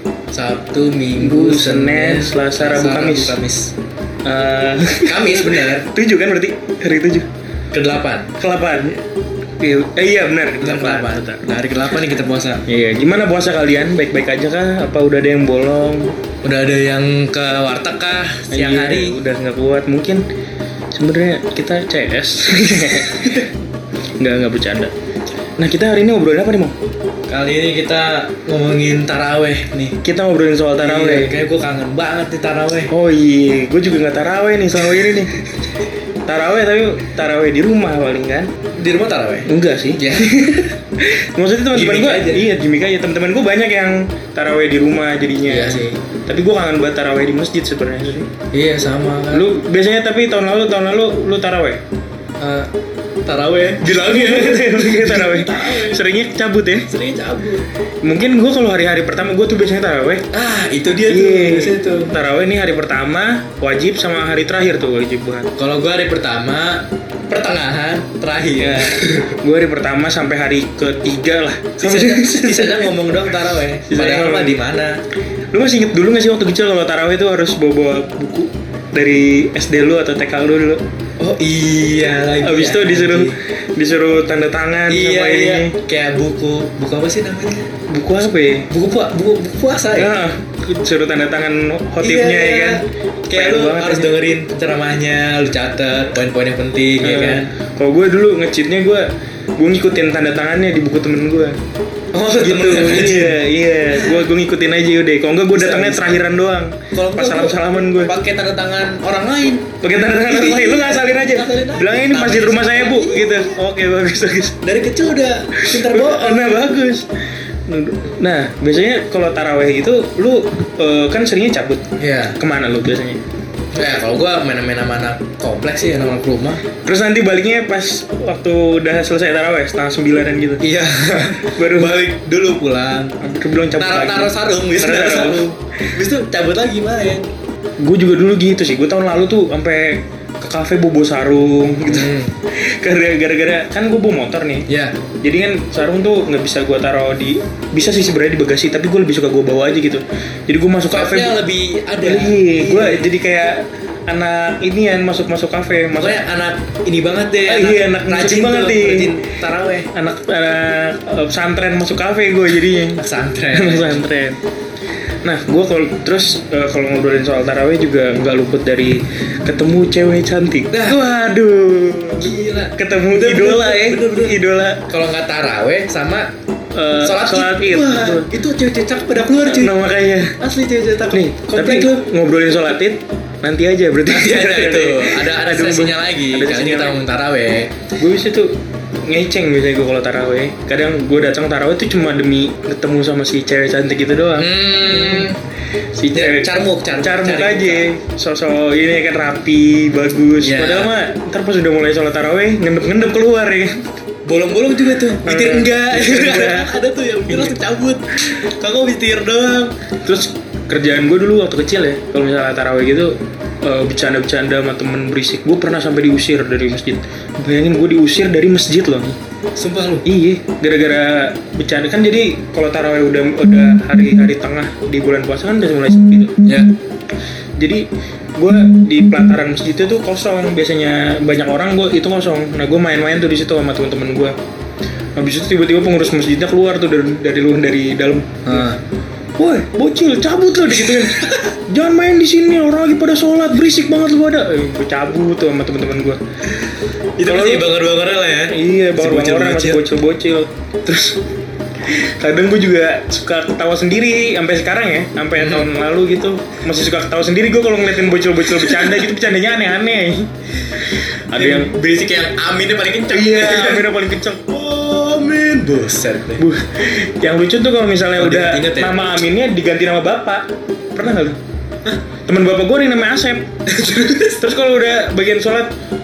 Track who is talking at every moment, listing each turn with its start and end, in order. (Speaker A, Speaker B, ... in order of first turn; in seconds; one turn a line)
Speaker A: 0.3-3.7
Speaker B: 1.2-3.4
Speaker B: 4.2-7.3
Speaker A: 5.0-5.9
Speaker A: 7.7-8.3
Speaker B: 8.4-9.0
Speaker B: 9.6-11.4
Speaker A: 10.6-12.6
Speaker B: 12.7-16.2
Speaker A: 16.4-19.2
Speaker B: 18.5-20.2
Speaker B: 20.9-23.4
Speaker A: 22.8-23.5
Speaker B: 24.2-24.9
Speaker B: 25.6-26.8
Speaker A: 27.3-30.0
Speaker B: 30.0-31.3
Speaker A: 30.8-32.9
Speaker B: 32.9-35.3
Speaker B: 36.3-38.5
Speaker A: 38.8-40.3
Speaker B: 39.5-48.3
Speaker A: 41.7-42.5
Speaker A: 45.5-46.0
Speaker A: 48.5-49.5
Speaker B: 49.3-51.8
Speaker A: 52.4-52.7
Speaker A: 53.2-56.0
Speaker B: 53.8-56.9
Speaker A: 56.9-57.7
Speaker B: 58.0-60.3
Speaker A: 60.3-62.1
Speaker B: 61.1-65.5
Speaker A: 65.6-69.3
Speaker B: 68.6-73.0
Speaker A: 71.8-75.0
Speaker B: 73.9-74.6
Speaker B: 75.5-80.8
Speaker A: 81.2-83.4
Speaker B: 82.4-85.8
Speaker A: 84.9-87.7
Speaker B: 87.9-88.7
Speaker A: 88.7-90.1
Speaker B: 90.0-92.8
Speaker A: 92.0-97.5
Speaker B: 93.3-94.1
Speaker B: 97.0-101.6
Speaker A: 102.1-104.3
Speaker B: 102.4-108.1
Speaker A: 105.5-106.2
Speaker A: 106.9-109.7
Speaker B: 109.8-114.6
Speaker A: 110.2-113.6
Speaker A: 114.6-116.5
Speaker B: 115.5-117.1
Speaker B: 117.7-121.9
Speaker A: 122.0-122.4
Speaker B: 122.4-123.2
Speaker A: 123.7-126.7
Speaker B: 126.7-130.6
Speaker A: 130.6-133.2
Speaker B: 131.5-132.0
Speaker B: 133.2-135.4
Speaker A: 133.8-137.3
Speaker B: 137.8-144.7
Speaker A: 141.9-142.3
Speaker A: 144.7-144.9
Speaker B: 145.2-151.3
Speaker A: 150.9-153.1
Speaker B: 152.0-156.2
Speaker A: 156.0-159.9
Speaker B: 157.5-159.0
Speaker B: 159.9-163.0
Speaker A: 162.9-164.0
Speaker B: 163.6-164.4
Speaker B: 165.2-174.9
Speaker A: 170.7-171.0
Speaker A: 172.2-176.3
Speaker B: 176.7-178.3
Speaker A: 177.0-179.8
Speaker B: 179.5-180.4
Speaker A: 180.4-182.0
Speaker B: 181.1-187.0
Speaker A: 184.1-187.8
Speaker B: 188.0-195.3
Speaker A: 194.3-195.4
Speaker B: 195.9-203.8
Speaker A: 196.1-197.9
Speaker A: 200.4-200.9
Speaker A: 204.2-209.8
Speaker B: 205.2-206.7
Speaker B: 210.0-219.2
Speaker A: 219.6-220.1
Speaker B: 220.1-226.3
Speaker A: 226.4-226.8
Speaker B: 227.6-234.4
Speaker B: 235.2-238.7
Speaker A: 238.4-238.8
Speaker B: 239.4-246.2
Speaker A: 240.9-241.5
Speaker A: 247.2-249.8
Speaker B: 247.3-247.7
Speaker B: 248.5-251.2
Speaker B: 251.8-260.3
Speaker A: 255.4-255.7
Speaker A: 258.6-259.1
Speaker A: 261.3-266.4
Speaker B: 261.3-261.7
Speaker B: 263.1-264.5
Speaker B: 266.4-271.4
Speaker A: 268.1-269.1
Speaker B: 272.3-273.5
Speaker A: 273.7-274.4
Speaker B: 274.4-275.7